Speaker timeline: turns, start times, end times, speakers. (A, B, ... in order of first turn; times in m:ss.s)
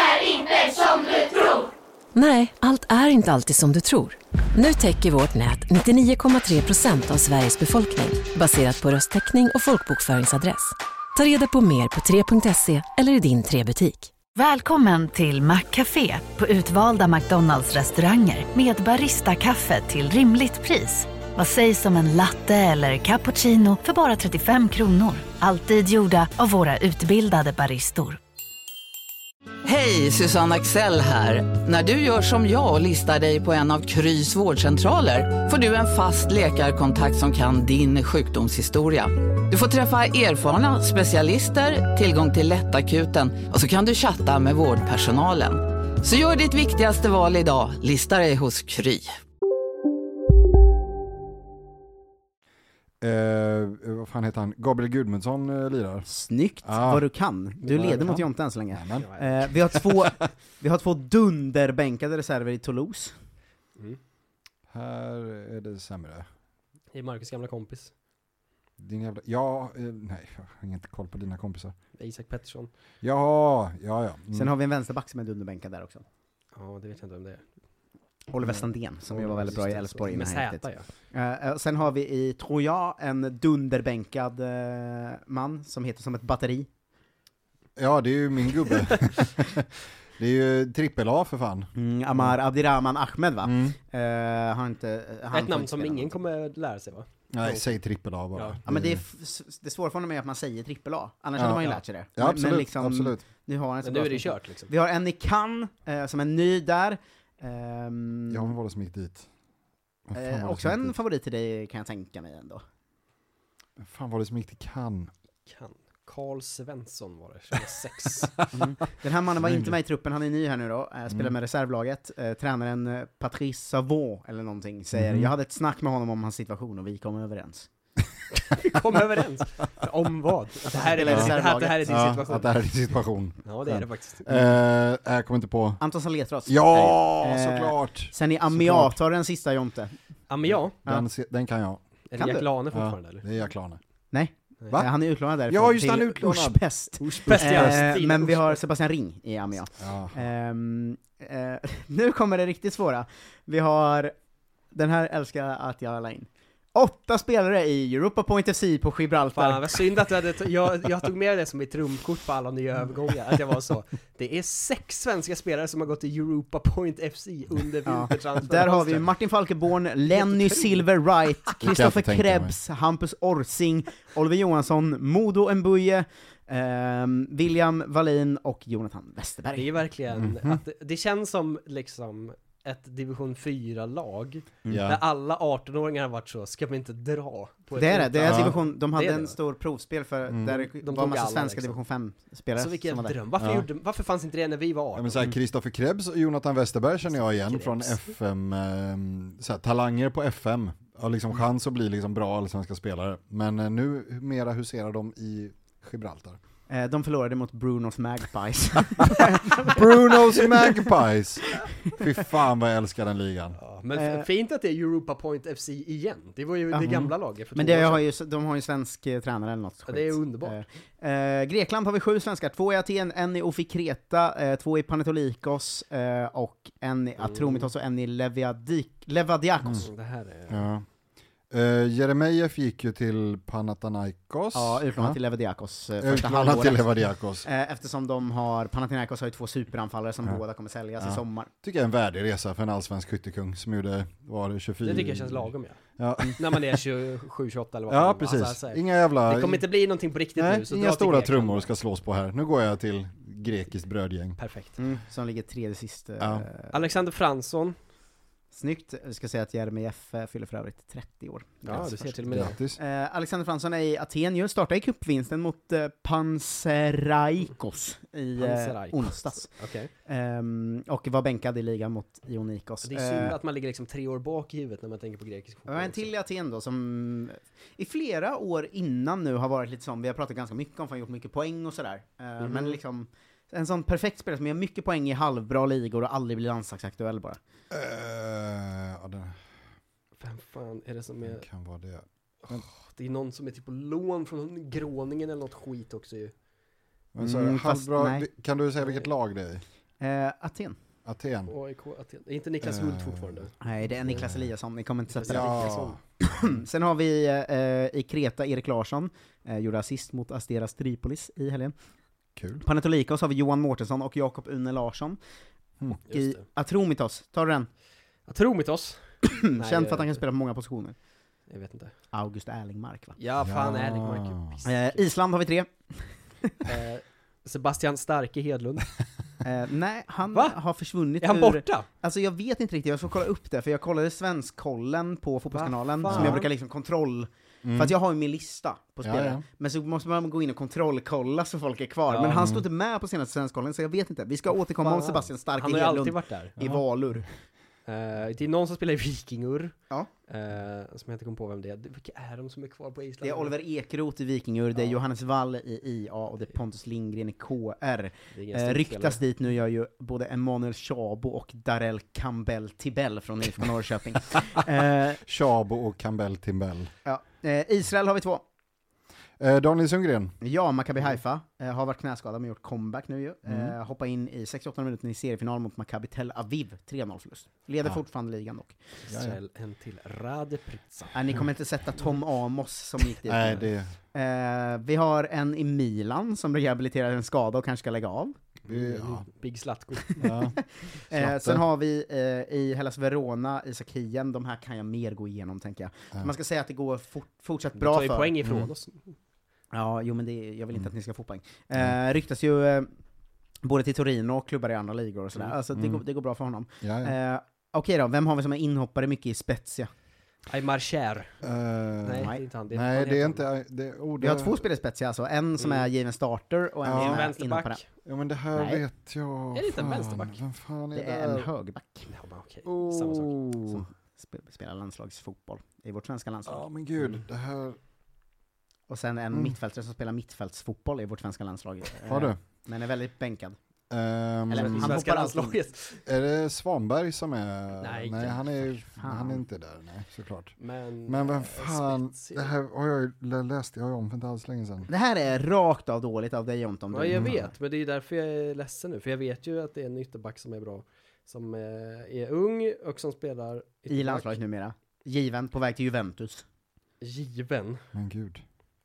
0:02.1-0:14.1 A
0:14.4-0:28.2 B
0:29.6-0:49.1 C
0:53.0-0:56.1 D
0:56.0-1:03.1 E
0:56.6-0:57.1 D
0:57.7-0:59.9 D
0:58.9-0:59.6 F
1:04.7-1:06.3 D
1:06.9-1:07.9 F
1:08.8-1:11.7 D
1:12.0-1:12.7 F
1:13.0-1:14.5 D
1:14.3-1:16.0 E
1:16.5-1:17.4 F
1:18.3-1:26.7 E
1:19.1-1:20.9 F
1:27.8-1:32.4 D
1:31.7-1:36.2 E
1:33.4-1:33.8 D
1:35.3-1:37.8 F
1:37.3-1:39.0 D
1:38.3-1:38.6 F
1:38.7-1:48.5 E
1:41.4-1:43.2 D
1:43.8-1:44.7 F
1:48.3-1:49.3 D
1:50.1-1:50.9 D
1:50.1-1:52.6 E
1:53.8-1:55.1 D
1:55.4-1:58.5 F
1:58.5-2:07.7 E
1:59.4-1:59.8 D
2:05.0-2:05.3 D
2:08.5-2:12.5 F
2:10.7-2:12.1 E
2:11.0-2:15.8 D
2:13.4-2:14.4 F
2:15.8-2:19.9 E
2:16.4-2:19.0 D
2:20.3-2:20.8 F
2:20.4-2:21.8 D
2:22.1-2:23.2 F
2:22.2-2:22.4 E
2:22.7-2:23.8 D
2:24.1-2:34.1 E
2:25.5-2:26.6 D
2:27.0-2:28.6 F
2:27.2-2:28.0 D
2:29.8-2:30.2 D
2:34.7-2:39.8 E
2:39.4-2:49.1 F
2:47.9-2:59.7 E
2:50.1-2:50.8 F
2:51.6-2:52.6 D
2:59.5-3:09.4 F
3:00.1-3:00.6 D
3:04.7-3:05.0 D
3:07.7-3:13.2 E
3:08.2-3:08.6 D
3:10.5-3:11.8 F
3:12.6-3:15.2 F
3:13.4-3:13.7 D
3:14.9-3:26.4 D
3:17.1-3:18.0 F
3:26.7-3:30.7 E
3:29.6-3:33.6 D
3:33.6-3:38.0 F
3:33.9-3:34.2 E
3:36.7-3:37.0 E
3:36.8-3:37.1 D
3:37.5-3:49.9 E
3:39.9-3:40.6 F
3:47.2-3:47.7 F
3:49.8-3:50.6 F
3:50.5-3:50.9 D
3:51.5-3:55.2 D
3:54.5-3:56.9 E
3:56.0-3:57.5 D
3:57.4-4:01.5 E
4:01.0-4:06.8 D
4:04.8-4:05.8 F
4:06.4-4:11.7 F
4:07.9-4:09.7 D
4:10.4-4:14.4 D
4:14.4-4:14.8 F
4:14.8-4:16.7 E
4:16.2-4:16.4 D
4:16.7-4:17.8 F
4:18.5-4:29.5 E
4:21.6-4:22.6 F
4:21.7-4:22.8 D
4:28.4-4:29.9 F
4:30.0-4:33.4 E
4:32.8-4:36.1 F
4:35.7-4:47.4 E
4:42.4-4:42.8 F
4:47.7-4:49.4 D
4:50.2-4:51.4 F
4:51.2-4:52.6 D
4:52.4-4:56.3 F
4:57.1-4:59.6 D
4:57.2-4:58.3 E
5:00.0-5:00.8 E
5:01.0-5:01.5 D
5:01.5-5:03.5 F
5:02.6-5:03.5 D
5:03.6-5:11.7 E
5:04.0-5:04.5 D
5:05.1-5:06.0 F
5:05.2-5:06.0 D
5:12.4-5:12.6 D
5:12.6-5:15.2 E
5:16.0-5:17.7 E
5:16.1-5:16.4 F
5:18.3-5:20.2 F
5:19.2-5:20.9 E
5:21.5-5:21.9 F
5:22.1-5:23.2 E
5:23.2-5:25.0 F
5:23.4-5:24.6 D
5:24.6-5:26.5 E
5:26.6-5:28.9 F
5:29.4-5:47.3 E
5:31.2-5:31.9 F
5:35.5-5:36.5 F
5:36.0-5:36.4 D
5:37.6-5:37.9 D
5:39.0-5:39.4 D
5:42.1-5:42.5 F
5:42.4-5:42.6 D
5:44.8-5:46.6 F
5:46.6-5:46.8 D
5:47.9-5:53.5 F
5:53.2-6:05.2 E
5:58.3-5:59.2 F
6:04.3-6:04.6 D
6:05.2-6:06.9 D
6:07.0-6:08.4 E
6:09.4-6:10.4 D
6:10.4-6:18.8 E
6:13.4-6:13.8 D
6:19.0-6:21.1 F
6:19.1-6:19.4 D
6:21.1-6:28.4 E
6:23.2-6:23.9 D
6:28.6-6:29.3 D
6:28.7-6:30.4 F
6:30.2-6:30.6 D
6:30.8-6:38.3 E
6:31.1-6:31.6 D
6:37.8-6:39.2 F
6:38.4-6:38.7 D
6:39.7-6:42.9 E
6:43.6-6:49.9 E
6:45.7-6:46.0 D
6:46.8-6:47.1 D
6:50.5-6:51.4 F
6:51.4-6:54.6 D
6:52.0-6:53.5 F
6:54.2-6:57.8 E
6:55.6-6:55.9 F
6:56.8-6:57.3 D
6:56.9-6:57.8 F
6:58.0-7:01.5 D
6:58.6-6:58.8 E
6:59.5-7:00.4 F
7:00.9-7:02.1 E
7:02.1-7:03.4 F
7:02.6-7:03.8 D
7:03.7-7:06.6 E
7:06.4-7:07.8 D
7:08.9-7:13.6 E
7:12.0-7:12.4 D
7:13.9-7:15.0 D
7:14.5-7:15.6 E
7:14.5-7:16.0 F
7:16.0-7:24.9 D
7:17.8-7:18.7 F
7:19.0-7:19.4 E
7:20.6-7:22.5 F
7:24.9-7:27.5 E
7:26.9-7:34.4 F
7:27.1-7:27.4 D
7:33.9-7:36.4 E
7:37.0-7:37.8 F
7:37.9-7:38.4 D